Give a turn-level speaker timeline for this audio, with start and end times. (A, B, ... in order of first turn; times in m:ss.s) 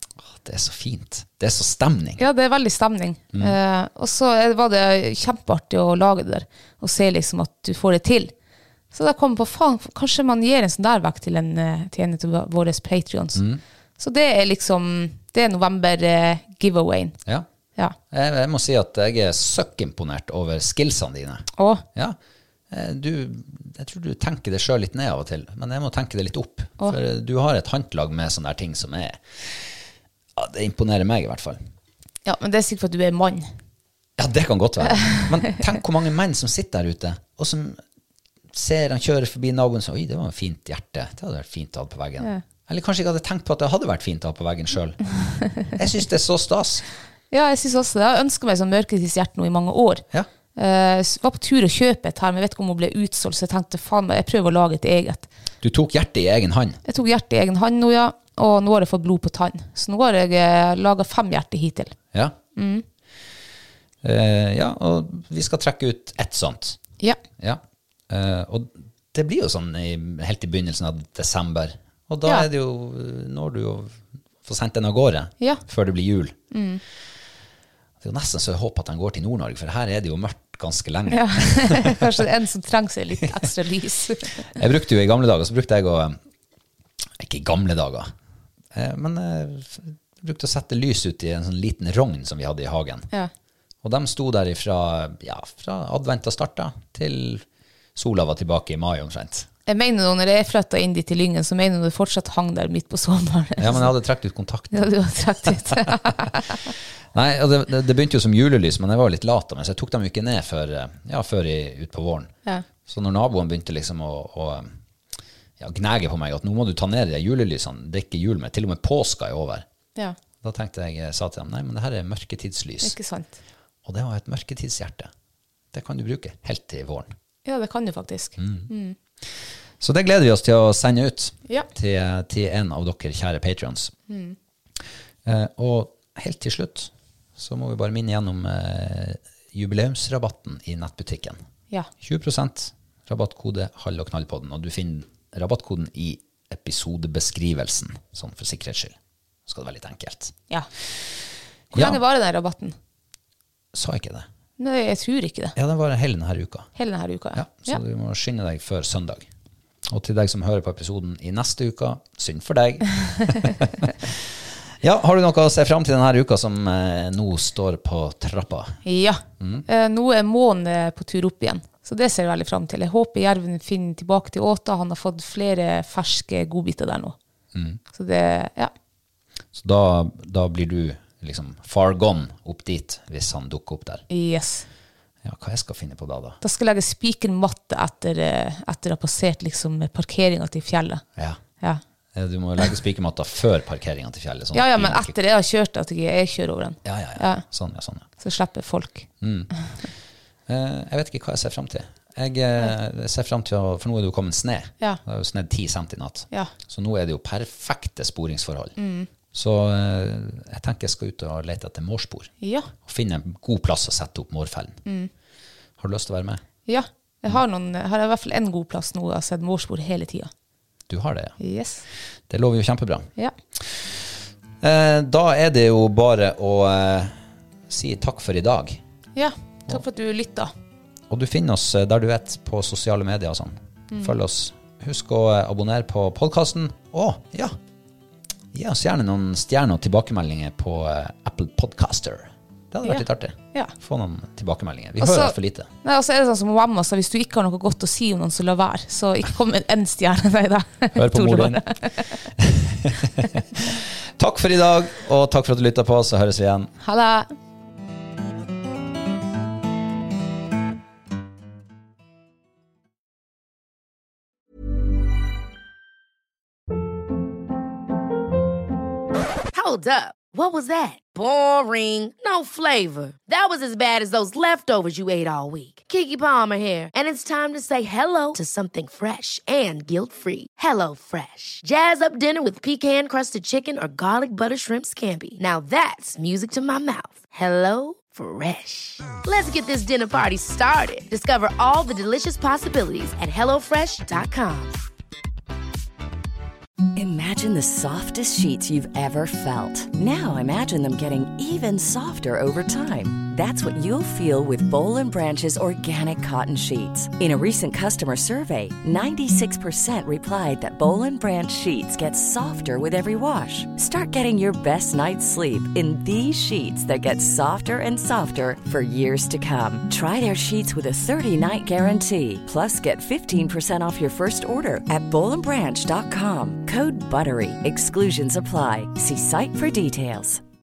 0:00.2-0:02.2 A
0:02.2-0:08.3 B
0:03.3-0:03.6 A
0:08.9-0:13.4 B
0:13.3-0:13.6 A
0:14.0-0:17.2 B
0:18.1-0:22.2 A
0:21.6-0:21.8 B
0:22.7-0:29.7 A
0:30.4-0:31.6 A
0:32.2-0:33.5 B
0:34.2-0:37.8 A
0:35.0-0:35.3 B
0:38.5-0:45.0 A
0:45.6-0:46.8 A
0:47.3-0:50.0 B
0:50.6-0:55.3 B
0:55.6-0:56.8 A
0:56.8-1:02.0 B
1:02.6-1:02.8 B
1:04.0-1:06.8 A
1:07.4-1:16.4 A
1:16.5-1:16.8 B
1:18.0-1:22.1 A
1:21.1-1:24.5 B
1:24.6-1:26.2 A
1:27.2-1:28.1 A
1:28.7-1:33.1 A
1:33.8-1:39.5 A
1:39.7-1:43.9 B
1:43.6-1:45.8 A
1:44.7-1:46.7 B
1:47.1-1:52.3 A
1:52.8-1:54.7 A
1:55.6-1:59.6 A
2:00.4-2:03.0 A
2:02.8-2:03.4 B
2:03.8-2:05.1 A
2:05.7-2:07.1 A
2:07.4-2:09.0 B
2:08.4-2:08.7 A
2:09.8-2:13.9 A
2:14.1-2:14.4 B
2:15.2-2:21.4 A
2:22.0-2:30.3 A
2:31.7-2:32.7 B
2:31.7-2:32.0 A
2:33.7-2:34.2 A
2:34.6-2:35.5 B
2:35.5-2:36.7 A
2:36.8-2:37.8 B
2:37.3-2:39.3 A
2:39.8-2:48.8 A
2:48.8-2:57.2 B
2:49.4-2:49.6 A
2:57.5-2:57.8 A
2:57.9-2:58.7 B
2:59.5-3:04.0 A
3:04.1-3:04.7 B
3:05.2-3:06.4 A
3:06.4-3:11.0 B
3:12.1-3:15.2 A
3:14.5-3:17.4 B
3:16.8-3:18.0 A
3:18.2-3:19.1 B
3:19.2-3:19.5 A
3:20.5-3:28.7 A
3:28.8-3:29.1 B
3:29.3-3:34.8 A
3:32.4-3:32.7 B
3:34.8-3:35.1 B
3:35.8-3:36.4 A
3:36.6-3:40.3 B
3:40.9-3:41.4 A
3:41.4-3:41.8 B
3:42.3-3:47.2 A
3:47.7-3:48.8 A
3:49.2-3:50.5 B
3:51.1-3:57.5 A
3:58.5-4:05.7 A
4:02.8-4:03.7 B
4:05.0-4:12.1 B
4:10.9-4:11.7 A
4:12.3-4:16.7 A
4:16.8-4:17.3 B
4:29.5-4:54.8 C
4:56.9-5:30.4 D